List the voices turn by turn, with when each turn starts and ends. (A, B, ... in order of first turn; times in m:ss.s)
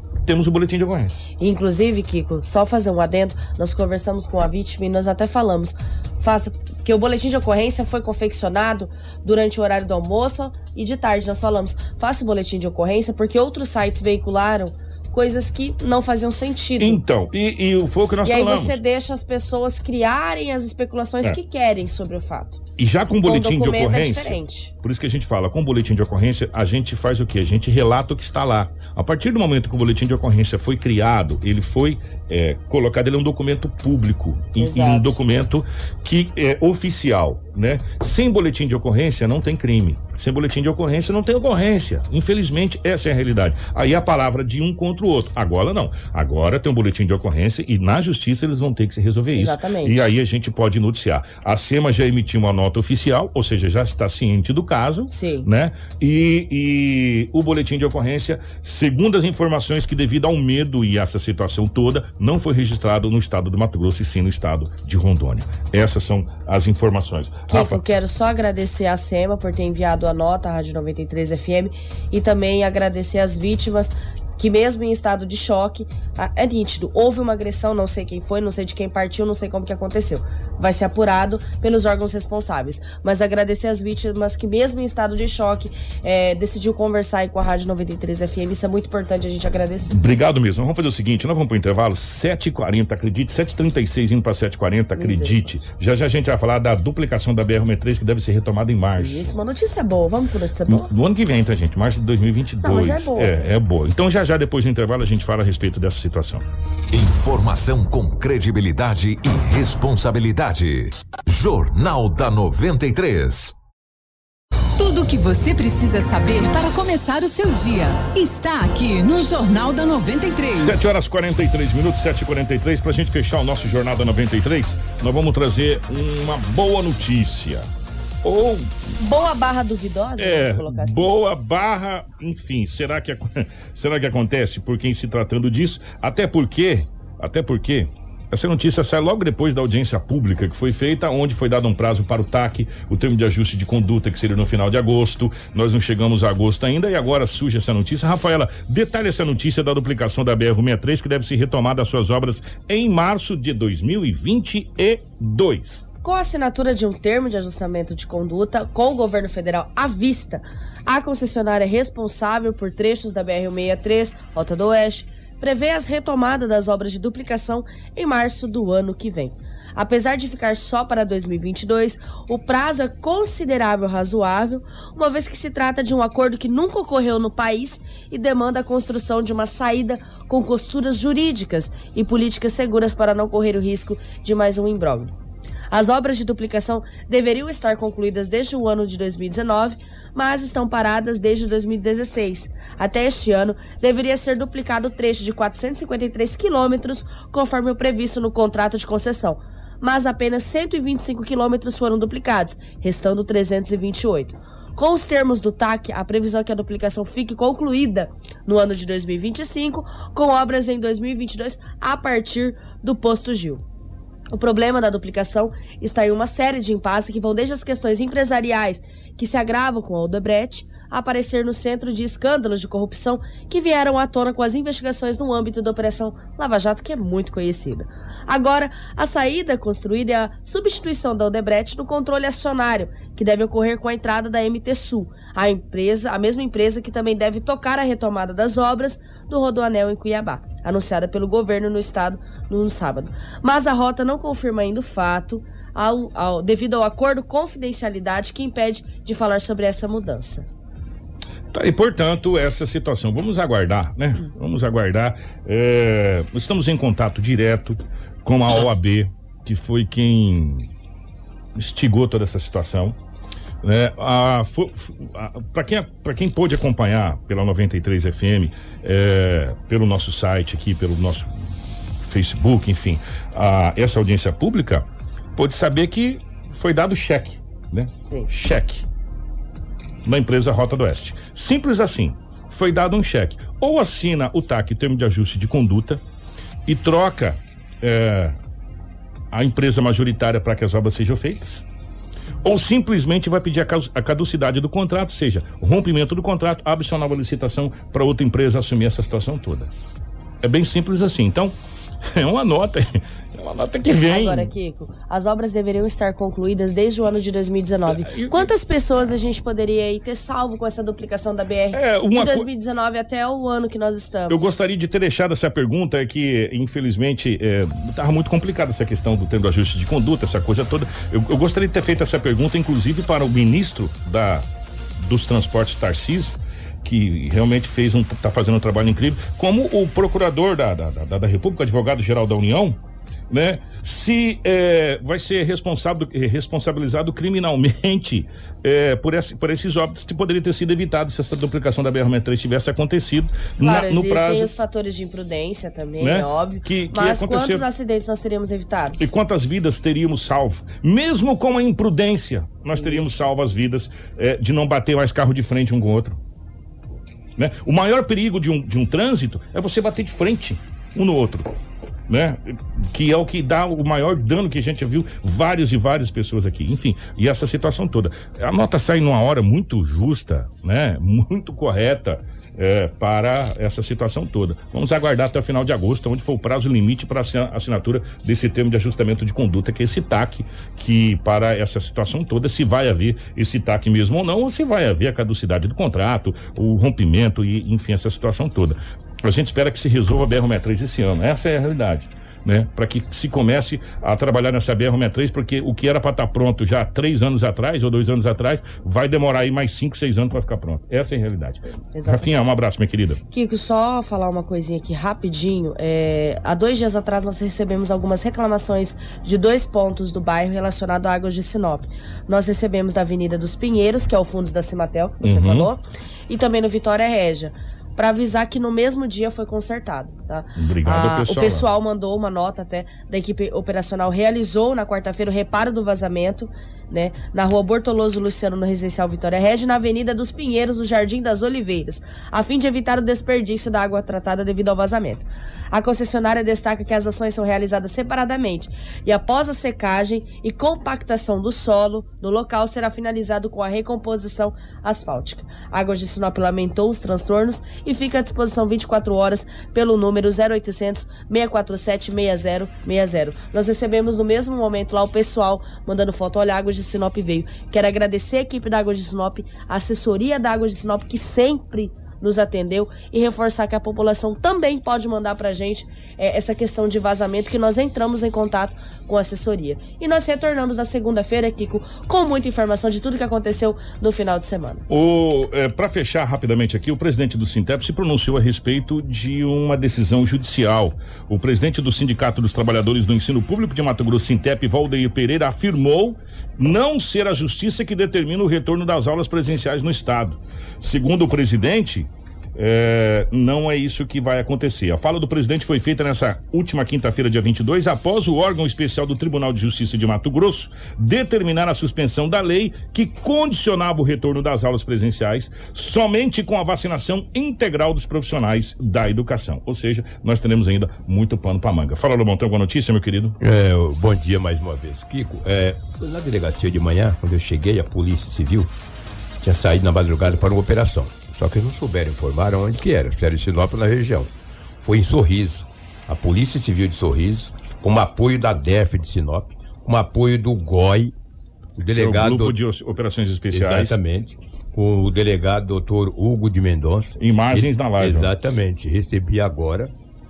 0:00.2-0:01.2 A
0:01.4-0:17.0 B
0:16.8-0:18.8 A
0:18.2-0:22.6 B
0:22.8-1:07.8 A
0:23.2-0:24.7 B
0:34.6-0:35.2 B
0:49.4-0:50.1 B
0:55.1-0:55.5 B
1:07.5-1:30.0 B
1:29.9-1:39.3 A
1:35.0-1:35.6 B
1:39.0-1:40.9 B
1:40.7-1:46.4 A
1:42.6-1:43.4 B
1:46.9-1:53.6 C
1:54.8-2:00.8 D
2:00.5-2:07.7 A
2:08.2-2:08.7 A
2:09.0-2:11.1 B
2:10.2-2:35.8 A
2:36.0-3:05.1 B
3:05.7-3:33.6 B
3:34.3-4:10.5 B
4:11.5-4:20.7 A
4:21.6-4:23.0 A
4:23.6-4:31.5 A
4:32.0-4:38.8 A
4:40.0-4:46.0 A
4:46.7-4:48.4 A
4:49.3-4:51.6 A
4:52.4-4:59.7 A
5:00.4-5:04.5 A
5:03.9-5:14.6 B
5:07.9-5:08.5 A
5:11.7-5:12.5 A
5:14.3-5:24.5 A
5:25.0-5:32.8 A
5:33.3-5:44.5 A
5:43.6-5:49.1 B
5:46.0-5:47.6 A
5:49.0-5:56.2 A
5:52.8-5:53.1 B
5:57.4-6:01.5 A
6:02.1-6:43.2 A
6:41.9-6:42.3 B
6:43.3-7:54.8 B
6:55.2-6:55.7 A
7:00.6-7:01.7 A
7:54.9-8:33.4 A
8:33.4-8:38.7 E
8:39.4-8:51.2 E
8:51.8-8:52.6 E
8:52.0-8:54.0 A
8:53.5-8:59.9 E
8:57.2-8:58.3 A